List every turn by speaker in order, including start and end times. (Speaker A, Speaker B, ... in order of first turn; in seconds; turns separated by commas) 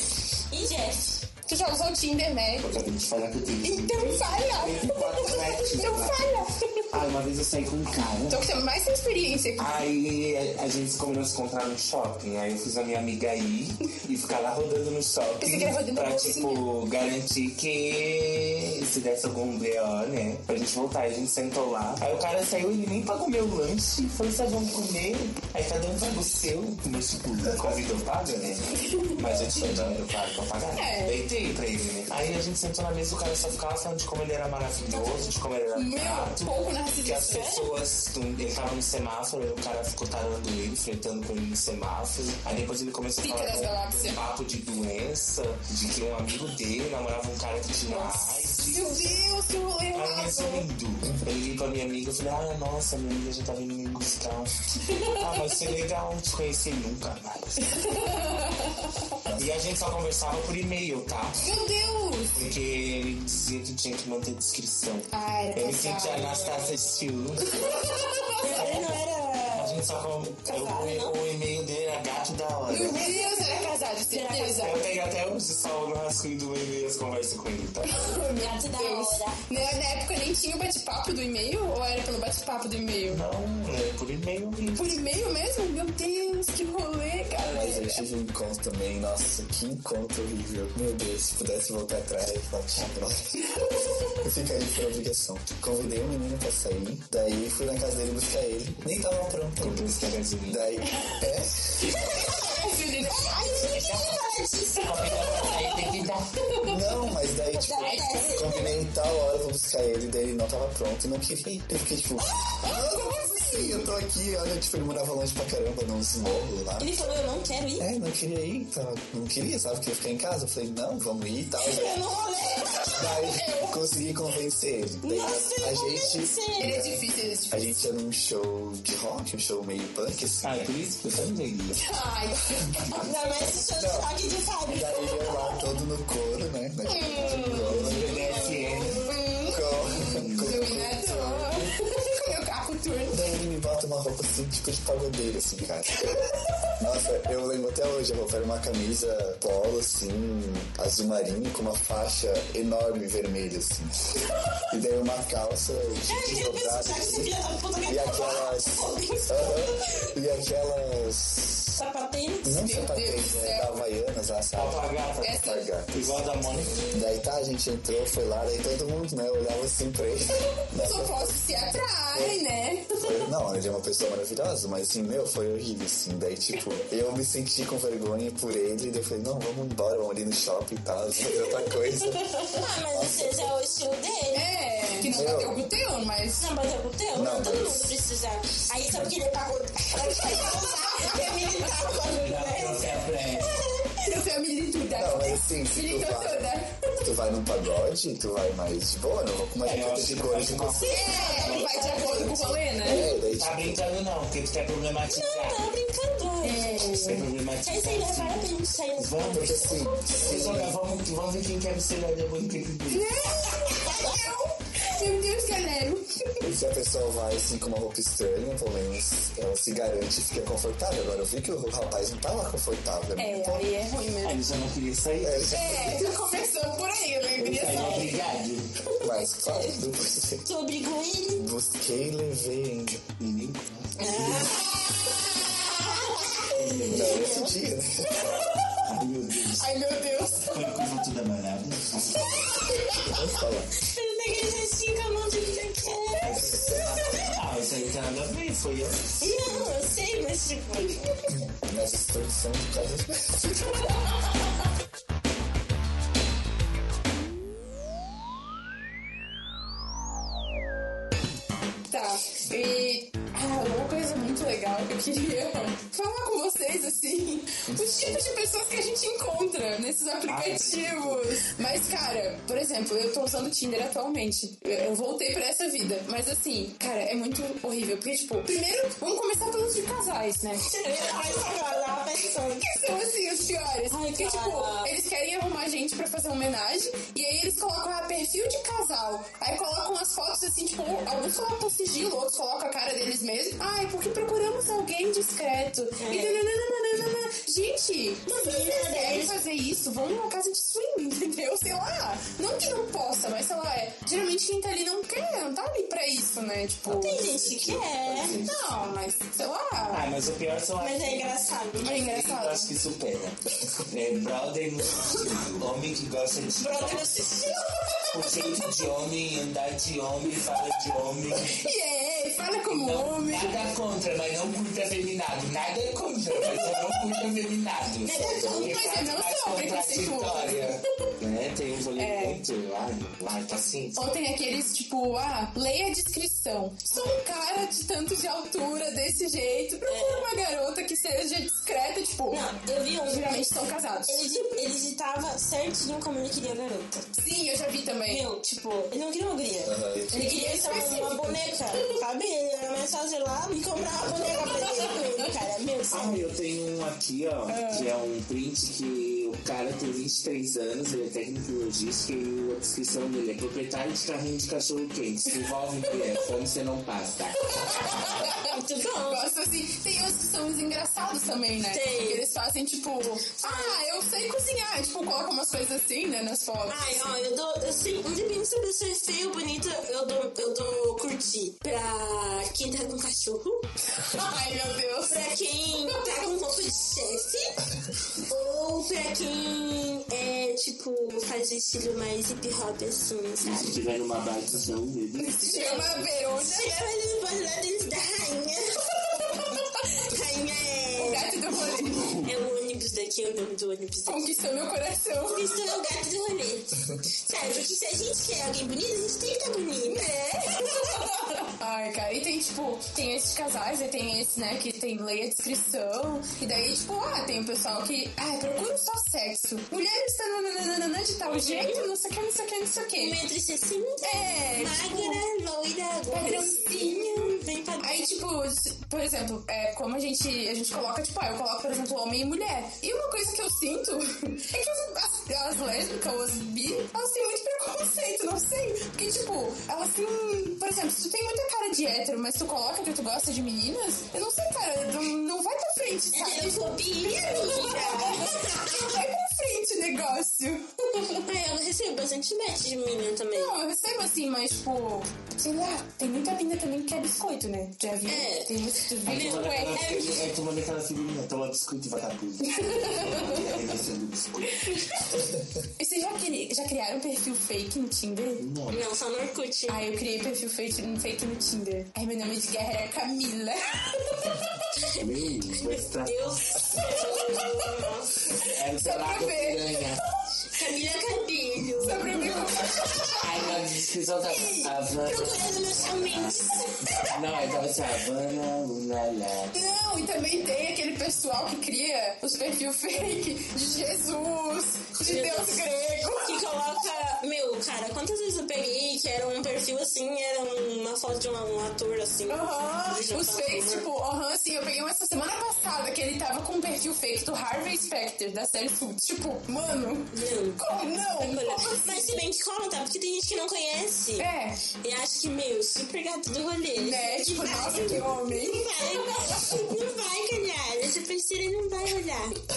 Speaker A: 0.5-1.3, Speaker B: 1.4-2.7, Speaker C: 2.6-8.4, Speaker B: 3.6-6.9, Speaker B: 8.3-9.7, Speaker C: 9.6-49.2, Speaker B: 15.4-16.6, Speaker D: 27.4-30.0, Speaker B: 30.8-31.2, Speaker A: 34.9-35.3, Speaker B: 35.7-37.6, Speaker A: 37.3-37.6, Speaker B: 43.2-44.2, Speaker B: 47.9-50.7, Speaker C: 49.9-58.1, Speaker B: 54.8-55.4, Speaker B: 57.6-59.1, Speaker D: 59.2-59.6, Speaker C: 59.3-61.4, Speaker B: 61.4-62.4, Speaker C: 62.3-69.0, Speaker B: 65.1-66.6, Speaker B: 67.5-68.4, Speaker A: 68.4-69.8, Speaker C: 69.5-73.0, Speaker A: 70.4-71.2, Speaker B: 72.7-74.8, Speaker A: 73.0-74.7, Speaker C: 74.6-78.1, Speaker B: 77.8-83.2, Speaker A: 78.3-79.4, Speaker C: 83.1-85.0, Speaker B: 84.7-88.0, Speaker D: 87.5-102.0, Speaker B: 93.5-94.2, Speaker C: 99.5-100.6, Speaker B: 100.9-101.2, Speaker B: 101.8-103.9, Speaker A: 102.0-105.5, Speaker C: 103.6-104.2, Speaker C: 104.8-106.3, Speaker B: 105.0-107.2, Speaker D: 106.6-116.9, Speaker A: 107.6-108.8, Speaker B: 107.7-108.3, Speaker B: 112.3-113.9, Speaker A: 116.8-117.9, Speaker D: 117.8-122.0, Speaker A: 121.6-123.3, Speaker D: 122.9-130.7, Speaker B: 123.3-123.8, Speaker A: 125.0-126.7, Speaker B: 126.6-127.7, Speaker C: 130.4-131.8, Speaker B: 131.8-133.1, Speaker A: 132.9-135.6, Speaker D: 133.8-134.1, Speaker D: 134.7-138.4, Speaker A: 136.8-139.7, Speaker C: 137.2-139.1, Speaker B: 139.1-139.6, Speaker D: 139.5-141.7, Speaker C: 139.9-140.5, Speaker B: 140.4-143.2, Speaker D: 143.1-146.1, Speaker D: 146.8-154.1, Speaker D: 154.7-157.3, Speaker A: 156.1-160.1, Speaker D: 157.8-161.8, Speaker A: 161.8-162.6, Speaker D: 162.4-166.2, Speaker B: 162.6-163.7, Speaker C: 164.5-166.9, Speaker B: 165.2-165.7, Speaker D: 166.9-171.4, Speaker B: 170.7-173.1, Speaker D: 172.1-172.4, Speaker D: 172.9-183.5, Speaker A: 182.5-184.5, Speaker B: 184.3-186.5, Speaker D: 185.0-185.7, Speaker A: 186.4-194.1, Speaker D: 187.1-188.0, Speaker B: 190.0-191.9, Speaker C: 192.1-193.6, Speaker B: 194.0-196.8, Speaker D: 194.9-200.9, Speaker C: 199.6-202.3, Speaker A: 200.8-202.6, Speaker B: 200.8-203.1, Speaker D: 202.8-203.8, Speaker C: 203.0-205.6, Speaker A: 205.1-207.0, Speaker B: 206.4-207.2, Speaker C: 206.9-209.5, Speaker A: 207.6-210.7, Speaker D: 209.2-210.8, Speaker C: 210.2-213.1, Speaker B: 212.9-216.4, Speaker A: 213.7-214.3, Speaker D: 216.4-223.7, Speaker B: 223.2-224.4, Speaker C: 224.2-225.6, Speaker D: 225.2-226.2, Speaker B: 225.5-228.2, Speaker C: 227.4-228.7, Speaker A: 227.7-228.1, Speaker A: 228.9-229.8, Speaker D: 229.0-230.4, Speaker A: 230.4-231.5, Speaker D: 231.3-233.0, Speaker C: 233.2-234.6, Speaker A: 234.0-237.6, Speaker B: 235.5-236.2, Speaker C: 236.5-237.3, Speaker D: 236.8-238.4, Speaker B: 238.3-238.8, Speaker C: 238.8-239.7, Speaker B: 239.6-240.8, Speaker C: 240.5-242.6, Speaker A: 242.2-243.1, Speaker B: 242.7-243.1, Speaker D: 243.1-243.7, Speaker A: 243.8-247.3, Speaker C: 246.2-249.6, Speaker D: 246.4-246.8, Speaker A: 249.2-251.3, Speaker D: 251.4-253.8, Speaker B: 261.9-280.7, Speaker D: 267.7-268.2, Speaker C: 270.2-271.3, Speaker A: 280.6-282.8, Speaker B: 282.7-307.2, Speaker A: 283.9-284.9, Speaker A: 296.0-296.4, Speaker A: 298.2-299.4, Speaker A: 306.9-308.4, Speaker D: 307.1-308.3, Speaker C: 307.6-308.7, Speaker B: 308.4-310.1, Speaker C: 309.9-311.3, Speaker A: 310.8-312.0, Speaker C: 311.8-317.1, Speaker B: 311.8-312.7, Speaker A: 316.6-318.7, Speaker C: 318.1-321.6, Speaker B: 321.5-323.6, Speaker C: 322.7-334.0, Speaker A: 328.0-329.1, Speaker D: 328.1-328.7, Speaker B: 328.6-330.8, Speaker B: 331.9-332.4, Speaker B: 333.9-342.4, Speaker A: 339.9-340.3, Speaker A: 342.3-343.5, Speaker B: 343.1-344.3, Speaker A: 344.1-347.1, Speaker B: 347.1-348.2, Speaker A: 348.1-356.3, Speaker D: 349.6-350.4, Speaker B: 350.1-351.4, Speaker C: 355.9-368.1, Speaker B: 357.5-357.9, Speaker B: 367.5-377.0, Speaker A: 368.3-369.2, Speaker A: 371.7-372.2, Speaker A: 373.4-373.8, Speaker A: 376.7-383.7, Speaker B: 384.0-385.3, Speaker A: 385.1-387.6, Speaker B: 385.8-386.2, Speaker A: 388.1-393.8, Speaker C: 393.4-395.8, Speaker B: 395.2-396.8, Speaker A: 395.4-399.4, Speaker B: 399.2-399.8, Speaker A: 400.0-404.3, Speaker B: 401.0-402.2, Speaker C: 401.9-402.3, Speaker B: 404.1-405.5, Speaker A: 405.2-411.1, Speaker B: 410.8-423.2, Speaker A: 421.2-421.9, Speaker A: 422.9-428.1, Speaker B: 424.0-425.2, Speaker B: 426.1-451.3, Speaker A: 446.1-448.9, Speaker A: 451.2-453.6, Speaker B: 453.3-459.9, Speaker A: 458.0-460.2, Speaker C: 459.0-465.0, Speaker B: 462.5-463.5, Speaker B: 464.6-465.1, Speaker B: 465.8-468.4, Speaker C: 468.4-468.8, Speaker A: 468.7-469.8, Speaker B: 469.7-474.6, Speaker A: 474.8-475.1, Speaker C: 474.9-476.6, Speaker A: 475.6-478.2, Speaker B: 476.7-477.6, Speaker C: 478.3-480.0, Speaker B: 478.4-479.8, Speaker A: 480.5-483.0, Speaker B: 481.8-483.5, Speaker C: 483.1-489.6, Speaker B: 484.3-484.7, Speaker A: 484.9-487.5, Speaker B: 486.7-487.1, Speaker B: 489.5-496.4, Speaker A: 495.0-503.9, Speaker B: 502.3-512.2, Speaker A: 510.1-514.3, Speaker B: 514.2-514.6, Speaker A: 514.8-522.4, Speaker B: 516.8-519.4